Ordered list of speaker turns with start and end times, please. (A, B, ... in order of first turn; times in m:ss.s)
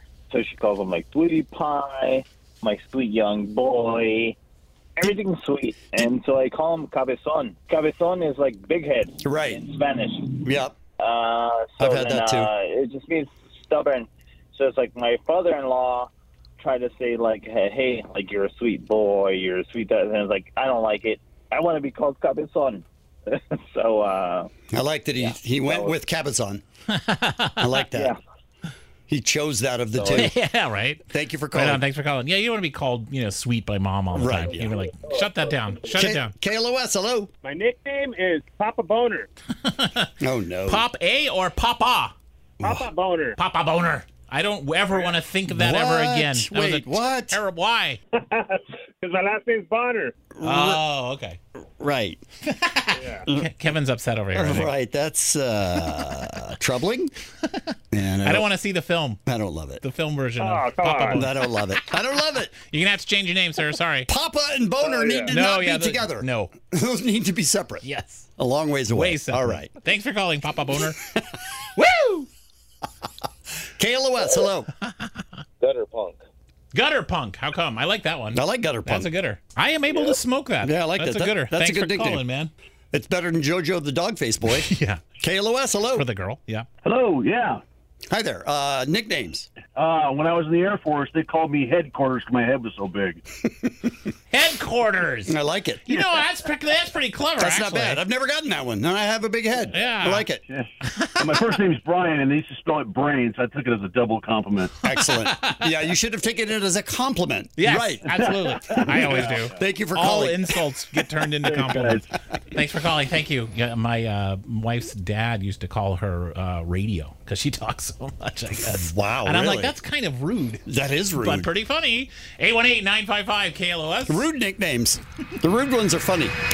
0:00.3-0:04.4 A
0:05.0-0:10.4 A
0:09.2-0:09.6 B
0:10.4-0:10.7 B
0:11.0-0:24.5 A
0:11.8-0:12.5 B
0:24.7-0:26.6 B
0:25.2-0:26.0 A
0:26.9-0:27.8 C
0:27.6-0:28.1 B
0:29.1-0:30.4 B
0:30.0-0:30.2 A
0:30.1-0:36.3 C
0:31.1-0:31.8 B
0:34.1-0:34.8 B
0:35.9-0:37.3 B
0:37.4-0:39.3 D
0:39.6-0:40.1 C
0:40.2-0:40.9 B
0:40.7-0:42.1 C
0:42.6-0:42.9 B
0:42.6-0:43.4 D
0:43.4-0:48.0 C
0:45.5-0:47.4 B
0:48.2-0:50.1 D
0:50.4-0:50.8 B
0:50.4-0:51.4 C
0:51.8-0:52.2 B
0:52.4-0:54.7 C
0:53.0-0:53.2 D
0:54.3-0:57.1 B
0:55.8-0:56.1 C
0:57.4-0:59.2 C
0:57.9-0:58.5 B
0:59.3-0:59.8 B
0:59.8-1:01.9 C
1:00.4-1:01.2 D
1:01.0-1:02.6 B
1:02.6-1:04.1 C
1:04.1-1:07.8 B
1:04.8-1:05.3 D
1:05.3-1:06.5 C
1:07.8-1:08.2 C
1:08.4-1:09.8 B
1:08.9-1:11.0 C
1:11.1-1:12.2 B
1:13.8-1:14.7 B
1:14.8-1:15.2 C
1:15.6-1:16.2 D
1:16.7-1:22.5 C
1:18.3-1:19.1 B
1:20.6-1:22.2 B
1:22.9-1:26.1 B
1:24.5-1:25.0 C
1:25.9-1:26.7 C
1:26.8-1:27.6 E
1:28.1-1:29.5 B
1:29.8-1:33.2 E
1:33.5-1:34.1 B
1:34.3-1:35.3 C
1:35.3-1:36.1 B
1:35.8-1:38.0 C
1:37.4-1:40.4 B
1:39.7-1:40.3 C
1:40.8-1:41.3 C
1:41.2-1:44.8 E
1:44.8-1:50.5 B
1:44.9-1:45.6 C
1:47.6-2:00.6 C
1:48.8-1:49.2 E
1:51.4-1:52.1 E
1:58.6-1:59.8 B
2:00.7-2:01.5 B
2:01.2-2:04.2 C
2:04.1-2:06.3 B